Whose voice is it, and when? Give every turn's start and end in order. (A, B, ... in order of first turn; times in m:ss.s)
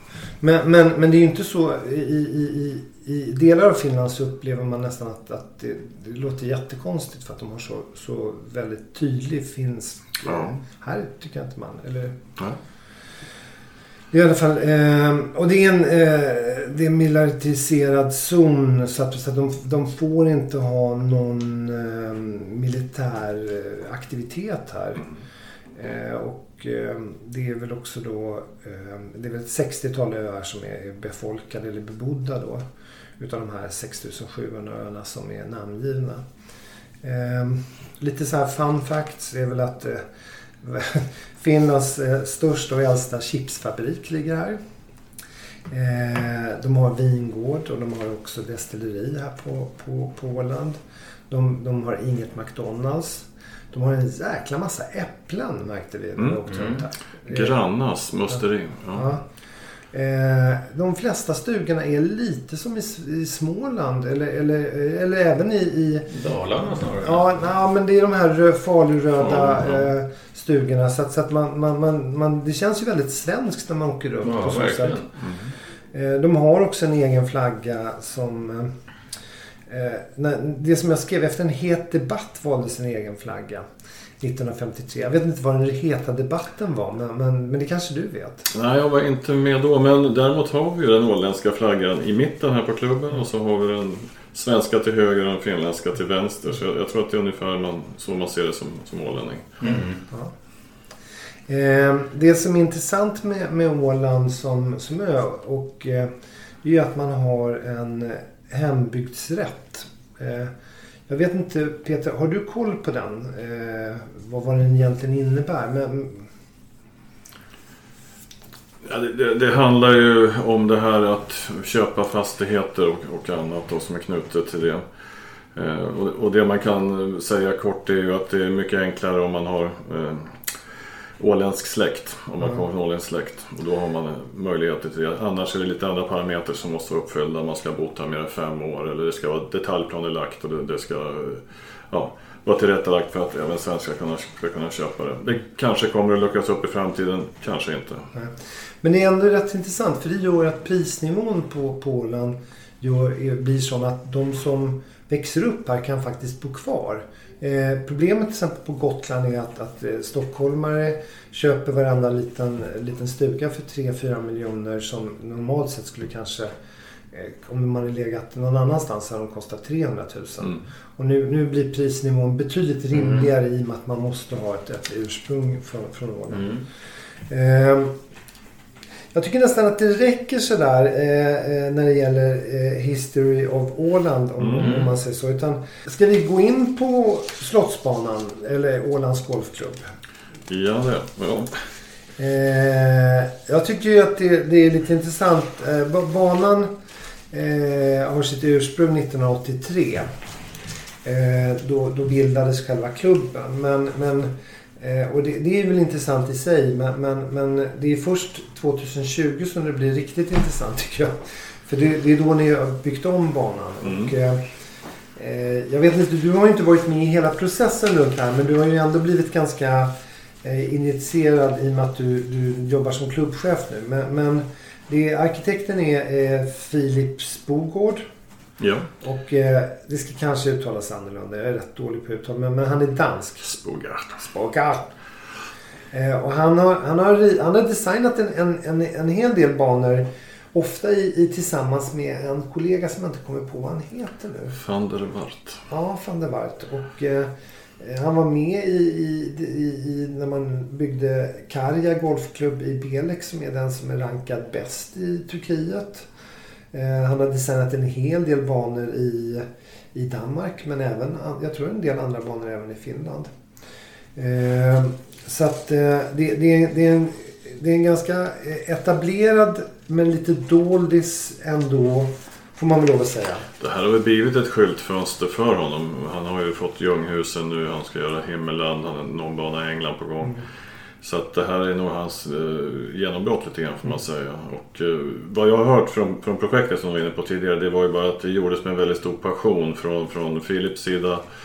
0:00.4-0:12.2 A
0:10.2-0:10.6 B
0:14.1-0:25.0 A
0:25.7-0:32.6 A
0:33.2-0:36.2 A
0:37.0-0:40.0 A
0:40.6-0:44.6 A
0:45.7-0:57.5 A
0:56.2-0:56.6 B
0:56.5-0:56.8 C
0:57.2-0:59.1 B
0:58.9-0:59.2 A
0:59.9-1:06.1 A
1:06.1-1:07.3 C
1:07.0-1:15.0 A
1:09.2-1:09.9 B
1:14.2-1:15.1 C
1:15.2-1:15.5 B
1:15.9-1:18.7 A
1:19.7-1:23.6 A
1:24.2-1:28.5 A
1:28.5-1:39.7 B
1:39.6-1:40.0 C
1:41.5-1:50.5 A
1:51.1-1:56.3 A
1:58.8-2:04.8 B
2:05.5-2:10.5 B
2:11.2-2:28.1 B
2:28.1-2:46.5 A
2:47.1-2:56.5 A
2:52.9-2:53.3 C
2:56.3-2:56.6 C
2:57.3-2:57.9 A
2:59.1-3:09.8 A
3:04.4-3:04.8 B
3:04.6-3:04.8 C
3:10.5-3:11.5 B
3:12.2-3:16.7 A
3:17.3-3:20.1 A
3:21.0-3:34.4 A
3:33.8-3:34.1 B
3:35.2-3:39.9 A
3:40.4-3:48.0 A
3:48.6-3:48.9 B
3:49.0-3:53.5 A
3:53.4-3:54.2 B
3:54.2-3:54.9 A
3:55.9-4:04.6 A
4:04.6-4:05.6 B
4:05.7-4:16.1 A
4:16.7-4:23.3 A
4:24.2-4:33.5 A
4:33.6-4:40.4 B
4:41.0-4:51.2 B